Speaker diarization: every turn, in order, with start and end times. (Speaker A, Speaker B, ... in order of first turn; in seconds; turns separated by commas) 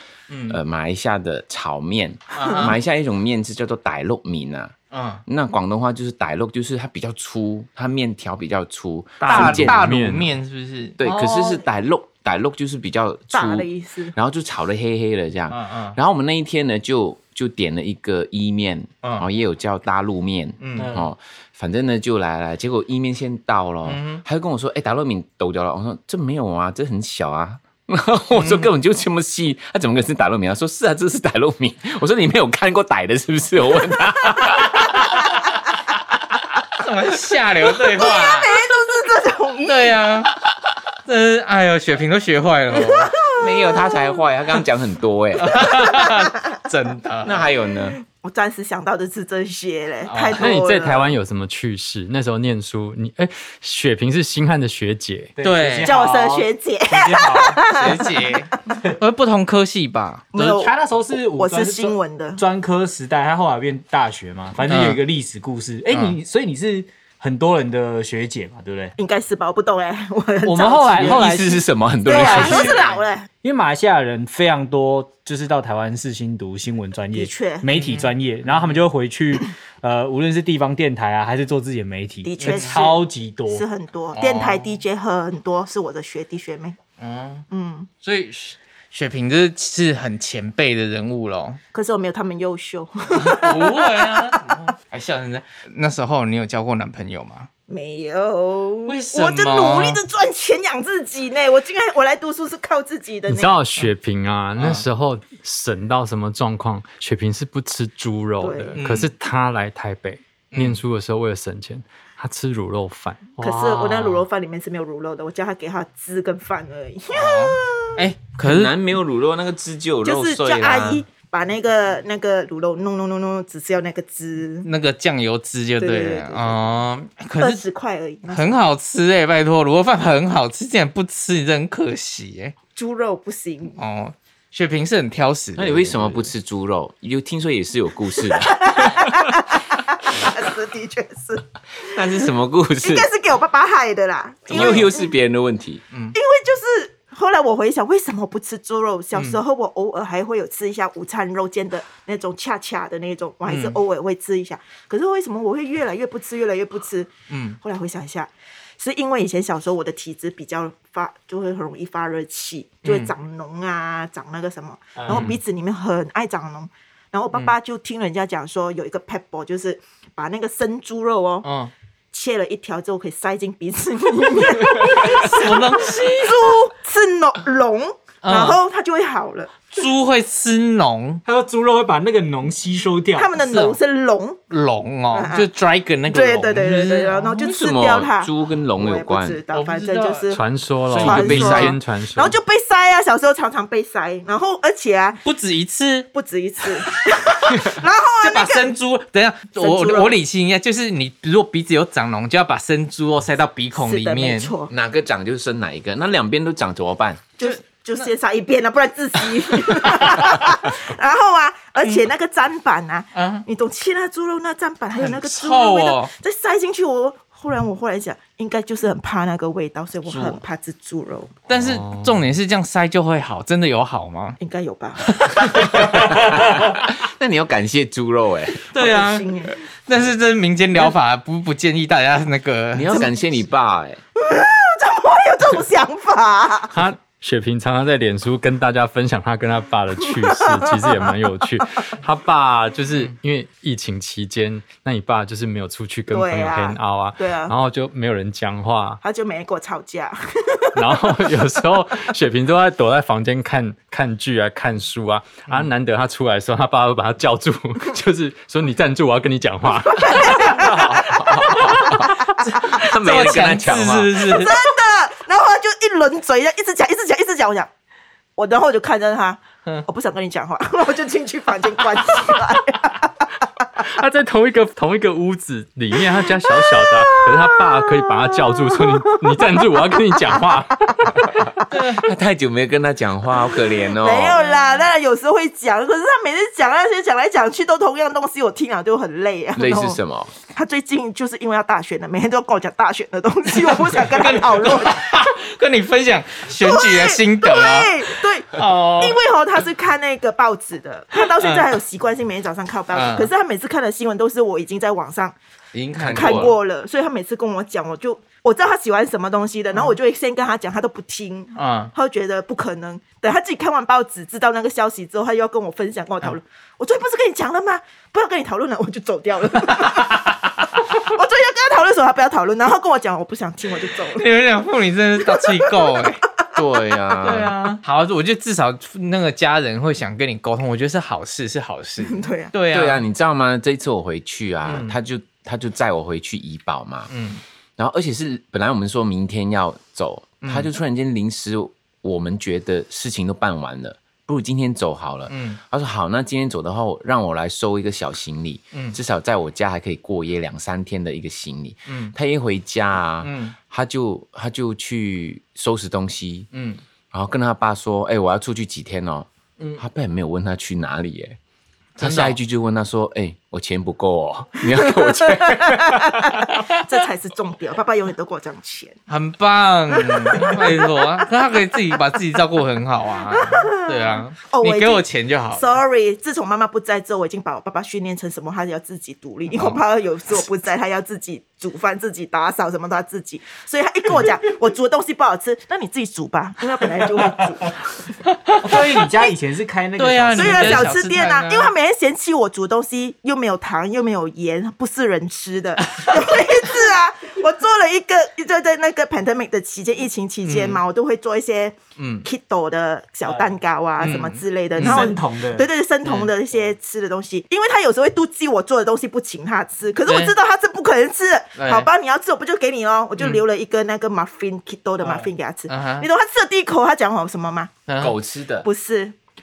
Speaker A: 0.3-0.6, Speaker B: 0.5-4.7, Speaker A: 2.3-2.7, Speaker A: 4.9-5.2, Speaker B: 5.3-9.8, Speaker C: 9.2-10.3, Speaker A: 9.2-11.6, Speaker B: 11.0-35.1, Speaker D: 13.3-14.1, Speaker A: 15.5-16.0, Speaker A: 20.6-20.9, Speaker E: 20.8-21.1, Speaker A: 23.8-24.2, Speaker A: 28.3-28.7, Speaker A: 36.8-38.6, Speaker D: 37.8-40.0, Speaker A: 39.6-40.3, Speaker A: 41.0-43.1, Speaker D: 42.9-44.1, Speaker B: 43.4-45.8, Speaker A: 45.4-47.4, Speaker D: 45.9-46.2, Speaker B: 47.2-48.0, Speaker D: 48.0-51.1, Speaker A: 50.0-50.5, Speaker C: 50.4-55.4, Speaker E: 55.4-57.6, Speaker A: 55.4-55.9, Speaker D: 55.8-58.3, Speaker A: 57.7-60.6, Speaker D: 60.3-62.4, Speaker E: 60.4-69.0, Speaker A: 64.7-65.0, Speaker A: 65.9-66.2, Speaker D: 69.0-71.3, Speaker E: 70.4-72.8, Speaker B: 71.0-72.8, Speaker D: 72.0-73.3, Speaker A: 72.5-73.0, Speaker E: 73.4-83.7, Speaker D: 77.1-77.7, Speaker A: 77.7-78.8, Speaker D: 82.2-86.8, Speaker A: 82.4-82.8, Speaker A: 84.1-84.8, Speaker A: 87.0-87.5, Speaker D: 87.5-87.9, Speaker A: 88.0-91.6, Speaker D: 91.7-94.5, Speaker A: 93.1-97.5, Speaker D: 97.7-103.6, Speaker A: 98.8-100.0, Speaker C: 103.3-113.3, Speaker A: 104.6-104.8, Speaker D: 108.4-108.8, Speaker A: 108.8-109.1, Speaker A: 110.5-110.8, Speaker E: 113.4-114.1, Speaker D: 113.4-118.0, Speaker A: 117.1-118.8, Speaker B: 118.4-121.0, Speaker D: 120.0-124.7, Speaker A: 124.6-127.6, Speaker D: 125.8-126.7, Speaker D: 127.4-128.6, Speaker A: 128.3-132.6, Speaker D: 132.7-133.8, Speaker A: 133.8-136.3, Speaker B: 135.6-139.1, Speaker D: 138.3-141.4, Speaker B: 141.9-143.1, Speaker D: 142.8-145.1, Speaker B: 144.5-145.8, Speaker A: 144.5-144.8, Speaker A: 145.9-146.2, Speaker D: 146.1-171.5, Speaker A: 149.1-149.4, Speaker A: 153.5-153.8, Speaker A: 157.3-157.6, Speaker A: 162.8-163.1, Speaker A: 165.0-165.4, Speaker A: 171.4-171.7, Speaker D: 172.1-179.7, Speaker A: 174.8-176.5, Speaker A: 178.2-178.6, Speaker A: 179.7-181.2, Speaker E: 181.2-183.3, Speaker D: 183.2-184.4, Speaker A: 183.4-183.8, Speaker A: 184.5-187.4, Speaker D: 185.1-185.5, Speaker D: 186.1-190.4, Speaker B: 187.4-189.4, Speaker A: 189.5-190.3, Speaker C: 190.3-192.4, Speaker B: 190.9-191.8, Speaker D: 190.9-195.2, Speaker A: 195.2-196.1, Speaker D: 196.1-198.7, Speaker A: 198.2-204.5, Speaker D: 199.6-200.1, Speaker D: 203.8-204.7, Speaker B: 204.7-207.3, Speaker D: 207.4-221.3, Speaker A: 213.1-213.4, Speaker A: 214.9-216.1, Speaker A: 220.1-220.4, Speaker A: 221.5-224.4, Speaker C: 221.6-222.1, Speaker D: 224.4-225.6, Speaker A: 225.2-225.7, Speaker B: 225.5-228.7, Speaker A: 228.7-229.3, Speaker D: 228.7-229.6, Speaker A: 229.8-233.1, Speaker B: 232.7-234.0, Speaker D: 234.2-236.7, Speaker C: 236.7-249.0, Speaker D: 240.2-241.2, Speaker D: 246.1-247.5, Speaker D: 249.0-251.3, Speaker C: 250.7-261.8, Speaker D: 259.8-262.1, Speaker B: 261.1-264.3, Speaker A: 262.4-264.5, Speaker D: 264.2-267.7, Speaker D: 268.4-273.2, Speaker C: 273.8-281.3, Speaker D: 276.8-277.4, Speaker A: 281.7-282.1, Speaker B: 281.9-284.4, Speaker D: 284.0-295.2, Speaker A: 284.4-284.6, Speaker B: 289.6-290.3, Speaker A: 294.0-299.2, Speaker D: 296.6-305.4, Speaker A: 301.4-301.6, Speaker A: 302.9-303.3, Speaker A: 305.7-306.5, Speaker B: 306.0-306.5, Speaker D: 306.1-324.3, Speaker A: 311.6-311.9, Speaker A: 324.1-326.2, Speaker B: 326.6-327.5, Speaker A: 327.2-333.0, Speaker D: 332.0-332.5, Speaker B: 332.7-337.1, Speaker A: 334.6-334.9, Speaker A: 337.1-337.4, Speaker B: 337.8-356.5, Speaker A: 340.4-340.7, Speaker A: 345.3-345.6, Speaker A: 351.9-352.1, Speaker A: 353.2-353.6, Speaker A: 356.5-356.8, Speaker B: 357.1-361.4, Speaker A: 362.0-362.4, Speaker B: 362.0-366.4, Speaker D: 365.6-369.0, Speaker A: 369.1-375.7, Speaker D: 370.0-370.9, Speaker D: 373.3-387.9, Speaker A: 379.5-379.8, Speaker A: 388.2-388.6, Speaker E: 388.6-390.9, Speaker A: 390.0-391.7, Speaker D: 390.3-417.8, Speaker A: 400.4-400.8, Speaker A: 402.0-402.2, Speaker A: 404.0-405.1, Speaker E: 404.8-405.7, Speaker A: 406.0-406.3, Speaker A: 410.0-410.3, Speaker A: 411.6-411.9, Speaker A: 413.2-413.4, Speaker A: 415.0-416.1, Speaker A: 417.9-418.1, Speaker B: 418.0-418.7, Speaker D: 418.6-419.1